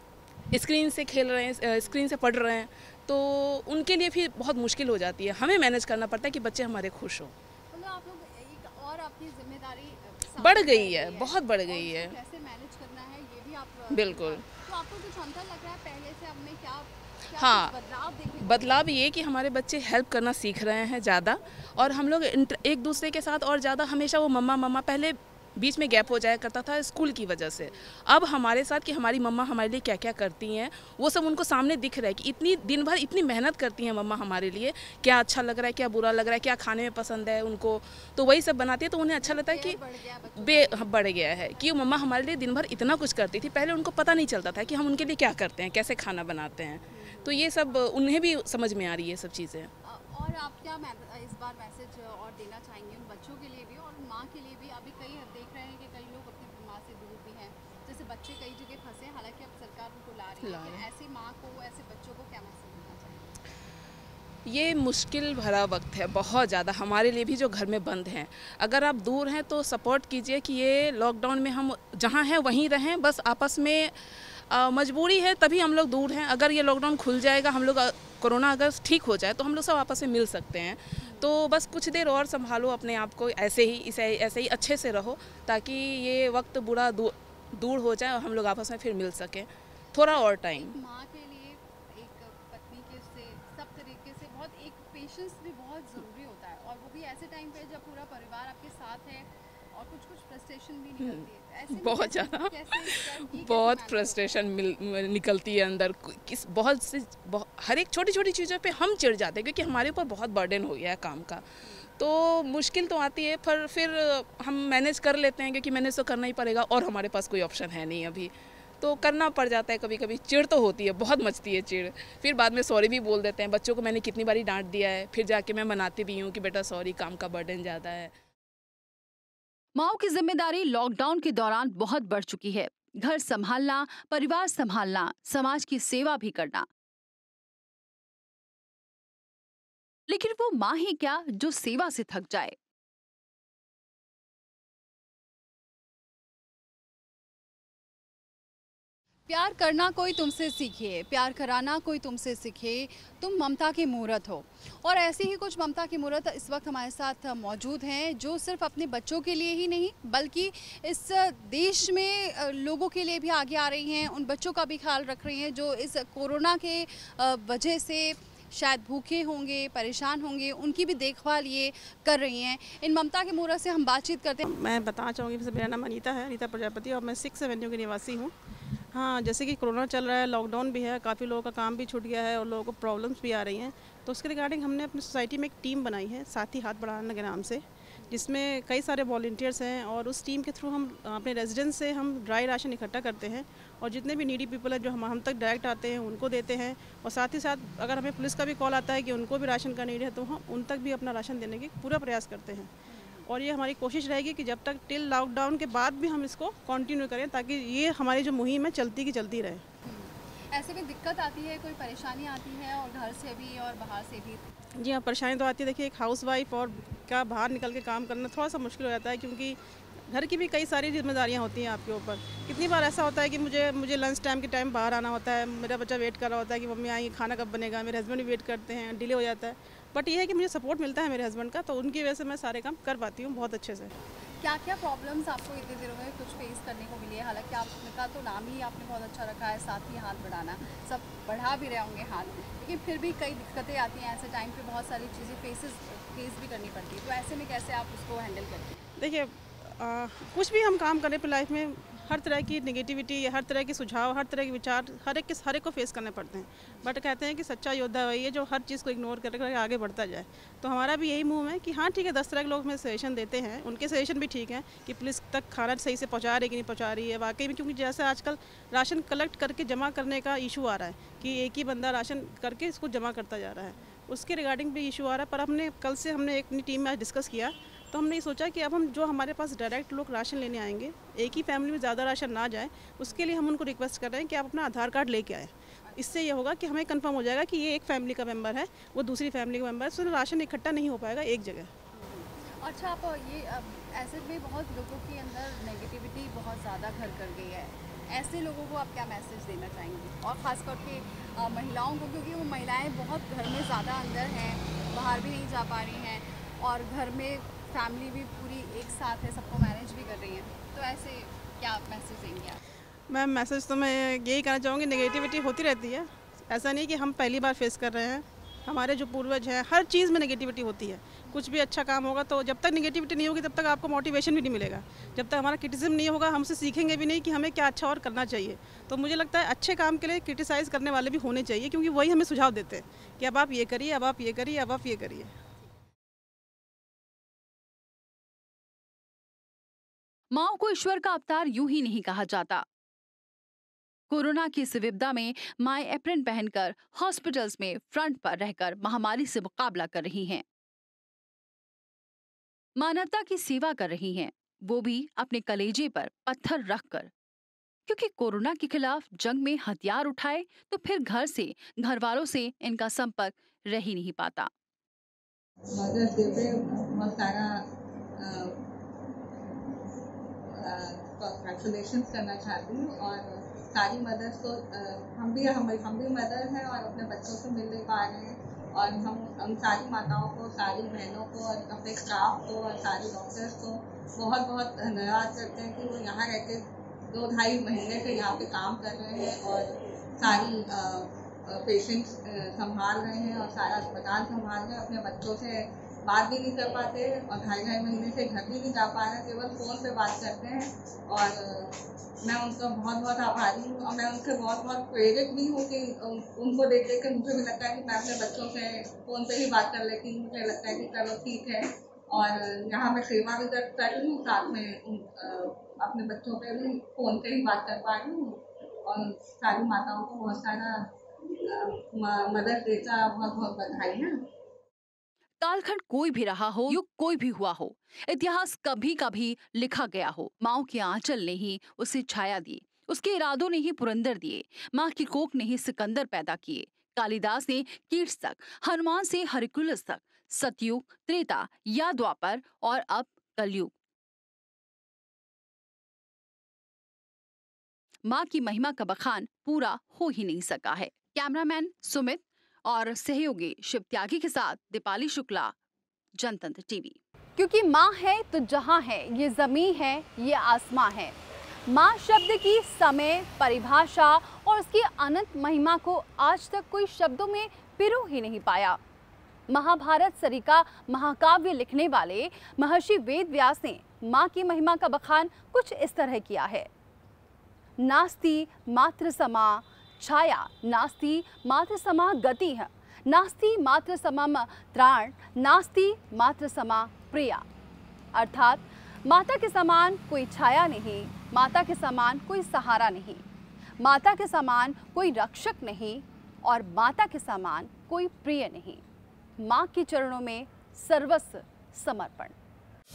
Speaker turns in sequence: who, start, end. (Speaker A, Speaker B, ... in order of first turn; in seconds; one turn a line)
Speaker A: 0.5-7.3
Speaker B: 7.7-18.8
Speaker A: 10.4-12.1
Speaker A: 13.9-14.4
Speaker A: 17.4-17.7
Speaker A: 18.4-39.8
Speaker B: 27.6-27.9
Speaker B: 39.2-41.7
Speaker A: 40.4-49.7
Speaker B: 46.9-47.8
Speaker B: 49.8-63.3
Speaker A: 60.4-60.9
Speaker A: 64.5-73.9
Speaker A: 74.5-90.7
Speaker B: 81.0-81.3
Speaker B: 90.1-104.5
Speaker A: 101.0-111.4
Speaker B: 111.6-111.9
Speaker A: 112.0-128.1
Speaker C: 129.8-136.7
Speaker C: 140.1-142.6
Speaker B: 149.3-174.5
Speaker D: 174.4-178.3
Speaker D: 178.9-202.7
Speaker B: 202.9-203.2
Speaker D: 203.3-209.6
Speaker B: 209.8-214.4
Speaker D: 214.8-219.6
Speaker D: 220.1-233.9
Speaker B: 234.4-248.8
Speaker D: 249.0-291.7
Speaker B: 283.1-283.3
Speaker B: 291.9-312.6
Speaker D: 313.1-335.3
Speaker B: 325.0-325.3
Speaker C: 340.3-342.6
Speaker C: 344.1-350.4
Speaker C: 352.8-357.1
Speaker C: 357.9-364.5
Speaker E: 365.7-367.6
Speaker E: 368.1-368.6
Speaker E: 370.5-420.8
Speaker E: 421.4-424.1
Speaker C: 425.4-443.7
Speaker C: 448.1-455.5
Speaker C: 456.2-457.0
Speaker B: 457.4-461.1
Speaker B: 461.7-468.8
Speaker B: 469.5-476.7
Speaker B: 477.8-487.4
Speaker B: 488.1-493.2
Speaker B: 493.8-498.8
Speaker B: 499.4-502.3